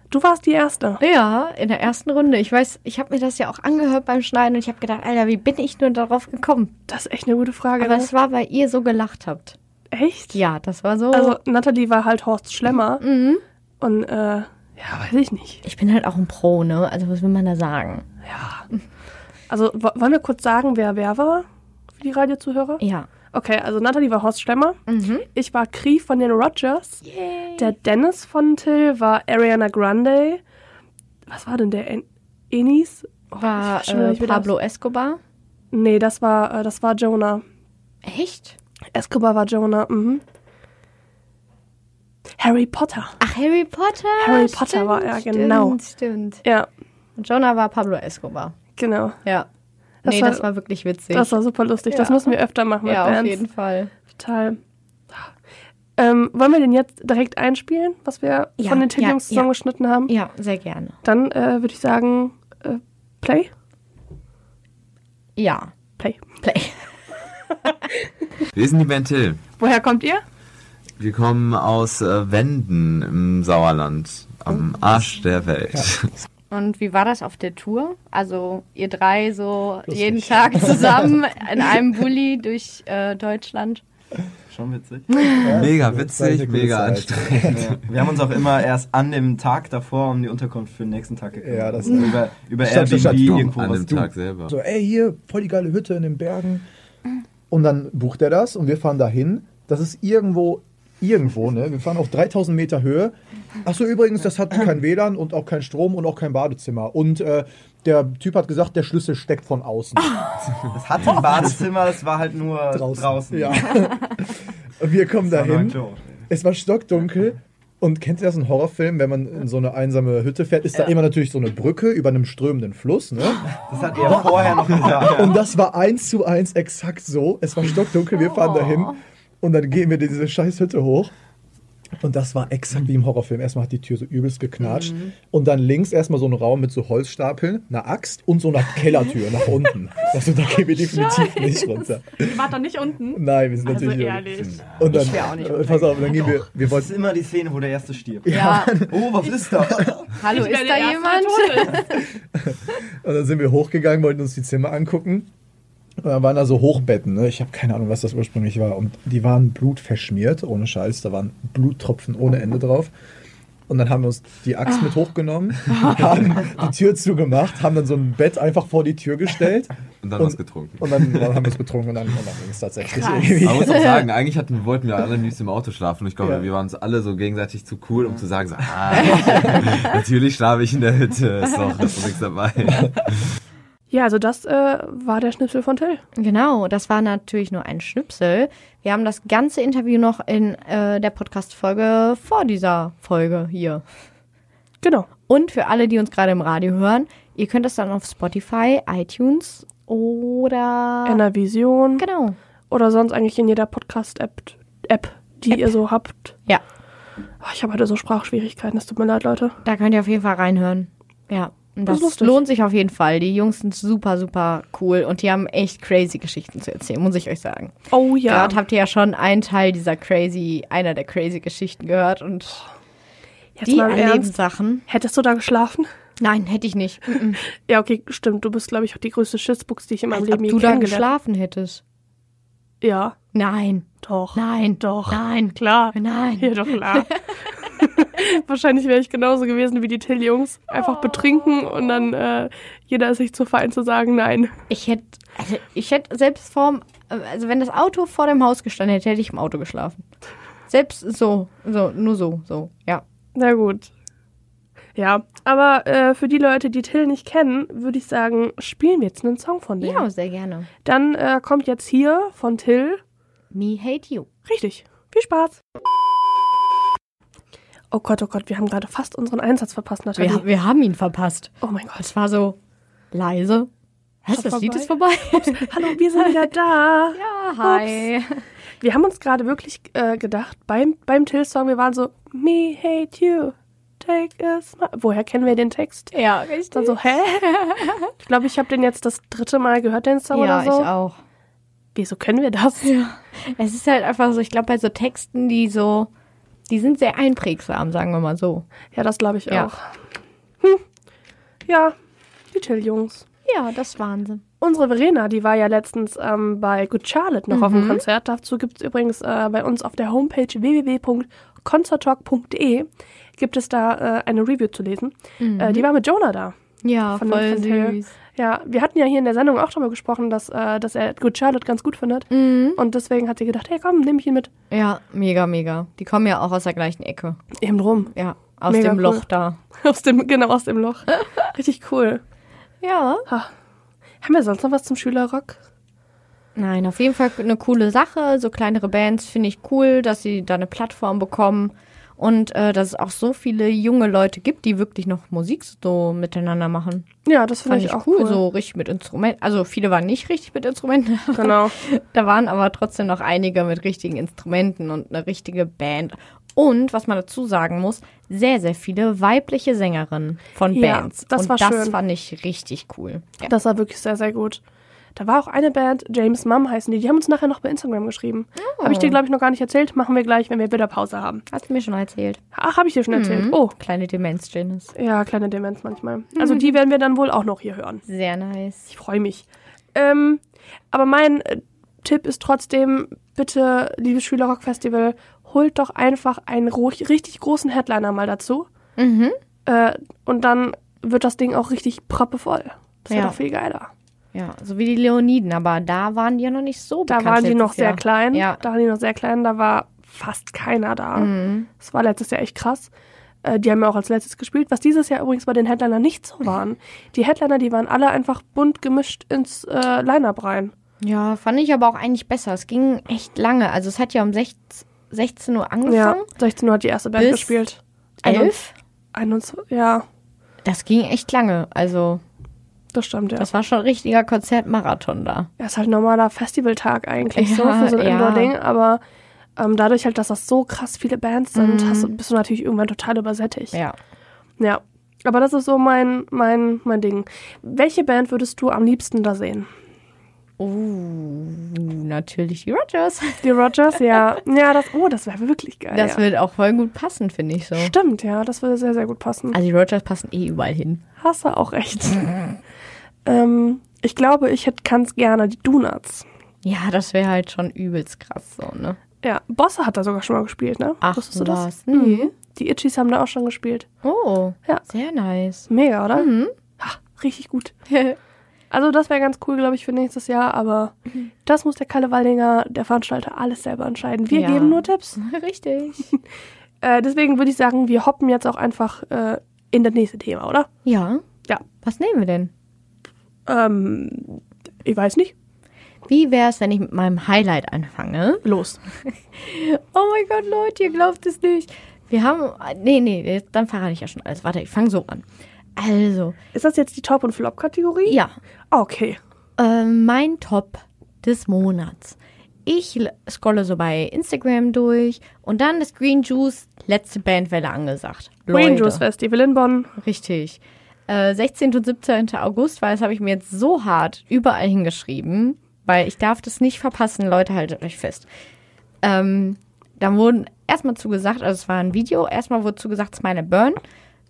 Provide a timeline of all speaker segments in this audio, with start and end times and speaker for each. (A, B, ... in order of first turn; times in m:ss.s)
0:00.1-0:01.0 A
0:01.0-0:06.7 B
0:06.9-0:08.1 A
0:07.8-0:09.6 B
0:09.9-0:10.4 A
0:10.3-0:11.4 B
0:11.1-0:13.0 A
0:13.0-0:13.4 B
0:13.8-0:15.6 A
0:15.6-0:18.0 B
0:18.2-0:18.6 A
0:19.5-0:21.4 A
0:22.0-0:24.8 A
0:22.8-0:23.1 B
0:24.9-0:25.3 B
0:25.3-0:27.0 A
0:27.0-0:27.7 B
0:27.6-0:30.4 A
0:31.3-0:34.5 A
0:33.4-0:35.2 B
0:35.7-0:37.4 A
0:38.0-0:38.5 B
0:38.9-0:40.2 A
0:42.4-0:43.2 A
0:43.2-0:46.4 B
0:44.2-0:45.8 A
0:47.2-0:48.6 B
0:48.8-0:49.2 A
0:50.0-0:50.4 A
0:50.0-0:53.9 B
0:51.1-0:53.4 A
0:54.1-0:54.6 A
0:56.0-1:00.1 A
0:58.6-0:59.5 B
1:00.1-1:00.9 B
1:01.0-1:03.5 A
1:05.4-1:05.7 B
1:06.4-1:06.8 B
1:08.5-1:09.4 C
1:09.6-1:10.2 A
1:11.0-1:16.1 C
1:16.5-1:23.8 B
1:19.9-1:21.2 D
1:24.5-1:25.4 E
1:25.4-1:27.6 D
1:25.5-1:27.8 C
1:27.5-1:33.9 E
1:31.4-1:36.6 D
1:32.8-1:34.5 C
1:37.5-1:50.3 D
1:50.7-1:53.8 E
1:51.1-1:51.5 D
1:52.7-2:11.1 D
1:55.3-1:56.1 E
2:03.7-2:05.4 E
2:12.0-2:22.5 D
2:14.8-2:15.1 B
2:21.0-2:21.6 A
2:22.2-2:24.6 A
2:23.1-2:26.9 D
2:24.3-2:24.7 C
2:24.9-2:26.2 B
2:26.6-2:30.2 E
2:28.2-2:30.0 D
2:28.3-2:28.7 B
2:30.2-2:32.1 B
2:30.2-2:31.9 A
2:32.4-2:35.3 D
2:36.0-2:42.9 D
2:43.7-2:54.0 D
2:50.0-2:51.4 C
2:53.0-2:54.0 B
2:53.4-3:03.2 C
2:56.2-2:56.5 D
2:59.0-2:59.3 B
2:59.0-2:59.5 D
3:03.9-3:06.0 A
3:06.2-3:13.8 B
3:14.8-3:15.1 A
3:15.3-3:21.2 B
3:21.0-3:22.0 A
3:22.0-3:22.4 B
3:22.7-3:26.3 A
3:25.5-3:25.8 B
3:27.4-3:29.6 A
3:29.6-3:42.6 B
3:31.9-3:32.4 A
3:37.9-3:38.6 A
3:43.6-3:44.3 A
3:43.6-3:44.8 B
3:44.9-3:45.9 A
3:46.2-3:47.4 B
3:47.6-3:51.1 A
3:50.1-3:51.8 B
3:52.8-3:53.1 A
3:53.3-3:57.2 B
3:54.0-4:04.5 A
4:00.8-4:02.1 B
4:04.7-4:10.0 B
4:10.7-4:13.0 B
4:13.3-4:13.9 A
4:14.9-4:20.0 A
4:19.8-4:20.7 B
4:20.8-4:23.0 A
4:23.5-4:24.3 B
4:24.4-4:25.6 A
4:27.9-4:30.4 A
4:30.2-4:32.6 B
4:31.6-4:32.1 A
4:33.1-4:33.7 B
4:34.3-4:36.5 B
4:34.3-4:38.0 A
4:37.1-4:38.4 B
4:38.8-4:46.1 A
4:46.1-4:48.1 B
4:46.7-4:47.5 A
4:48.1-4:50.9 A
4:50.3-4:51.2 B
4:51.9-4:52.9 A
4:52.8-4:56.1 B
4:56.7-4:58.6 B
4:58.9-4:59.9 A
5:01.6-5:01.9 A
5:02.5-5:03.2 A
5:03.5-5:04.4 B
5:04.6-5:16.5 A
5:07.5-5:08.0 B
5:15.4-5:15.9 B
5:16.8-5:18.1 B
5:17.1-5:24.5 A
5:22.3-5:22.8 B
5:24.7-5:27.4 B
5:27.6-5:28.1 A
5:28.1-5:29.6 B
5:28.7-5:32.2 A
5:32.8-5:33.3 B
5:34.2-5:35.6 A
5:36.6-5:47.1 B
5:47.2-5:48.4 A
5:47.6-6:03.5 B
5:51.3-5:51.7 A
6:00.7-6:02.0 A
6:03.4-6:04.6 A
6:05.1-6:11.4 A
6:08.6-6:09.2 B
6:11.5-6:12.4 B
6:12.5-6:13.7 A
6:13.1-6:14.9 B
6:14.9-6:18.0 A
6:16.4-6:16.8 B
6:18.0-6:18.9 B
6:18.9-6:28.7 A
6:29.0-6:29.4 B
6:29.6-6:33.9 A
6:33.1-6:33.4 B
6:34.3-6:38.6 B
6:37.1-6:42.9 A
6:41.1-6:41.7 B
6:43.4-6:50.7 A
6:51.0-6:56.3 B
6:55.8-6:58.5 A
6:57.2-6:57.6 B
6:58.2-6:58.7 B
6:59.1-7:00.0 A
7:00.6-7:02.2 B
7:02.9-7:03.5 A
7:03.4-7:05.5 B
7:05.6-7:09.0 A
7:07.3-7:08.5 B
7:09.6-7:13.8 A
7:11.5-7:12.1 B
7:13.7-7:14.0 B
7:14.6-7:19.7 A
7:20.6-7:23.5 B
7:23.4-7:26.2 A
7:25.9-7:27.9 B
7:27.8-7:29.6 A
7:29.5-7:31.0 B
7:31.2-7:32.3 A
7:33.2-7:36.2 A
7:36.6-7:39.0 B
7:39.2-7:43.9 A
7:41.0-7:42.3 B
7:44.0-7:46.5 B
7:45.7-7:47.7 A
7:47.9-7:48.2 B
7:48.7-7:55.2 A
7:54.3-7:56.1 B
7:56.8-8:00.7 A
8:00.8-8:01.2 B
8:01.8-8:02.5 B
8:03.5-8:05.3 A
8:06.1-8:08.4 B
8:08.4-8:08.8 A
8:09.0-8:15.2 B
8:15.8-8:16.4 B
8:16.5-8:18.2 A
8:18.0-8:18.3 B
8:18.7-8:19.2 A
8:19.6-8:29.0 B
8:28.5-8:29.9 A
8:30.0-8:38.3 B
8:39.0-8:43.8 B